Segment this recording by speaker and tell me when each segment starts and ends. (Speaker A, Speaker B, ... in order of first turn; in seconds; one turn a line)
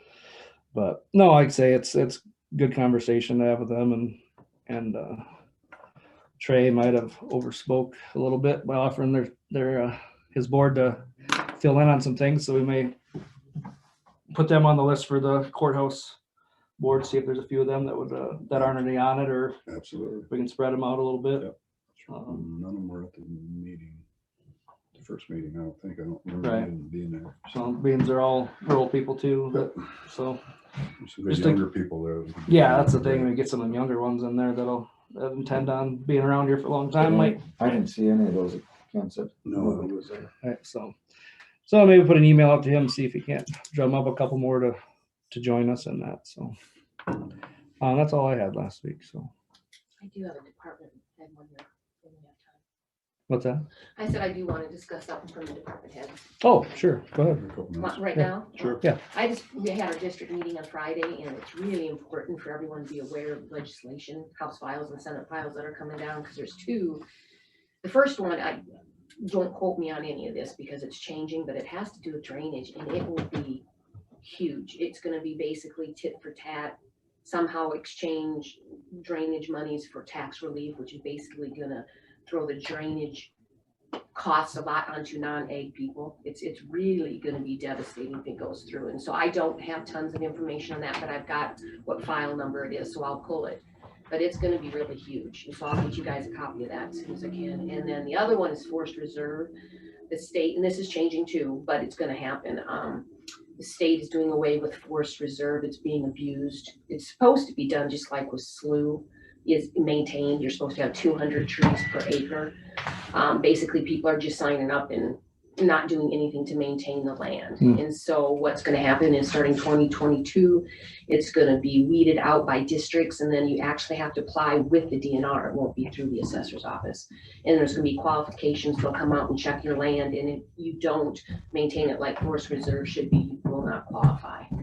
Speaker A: 0.7-5.2
Speaker A: 6.4-12.9
Speaker A: 14.3-16.2
Speaker A: 16.8-19.6
Speaker B: 19.6-20.3
Speaker A: 20.3-21.5
Speaker B: 21.4-24.0
Speaker A: 22.1-22.4
Speaker B: 24.9-27.4
Speaker A: 26.4-26.7
Speaker A: 27.5-30.4
Speaker B: 31.0-33.3
Speaker A: 31.3-31.6
Speaker A: 32.5-37.4
Speaker C: 37.0-40.1
Speaker B: 39.5-40.2
Speaker A: 40.4-40.9
Speaker A: 41.6-44.8
Speaker A: 45.3-46.5
Speaker A: 47.8-49.3
Speaker D: 50.0-52.6
Speaker A: 53.3-53.6
Speaker D: 54.0-56.2
Speaker A: 56.4-57.4
Speaker B: 57.2-58.0
Speaker D: 57.8-67.0
Speaker D: 67.8-68.6
Speaker D: 69.2-73.6
Speaker D: 74.2-83.3
Speaker D: 84.1-99.5
Speaker D: 100.1-112.5
Speaker D: 113.1-134.5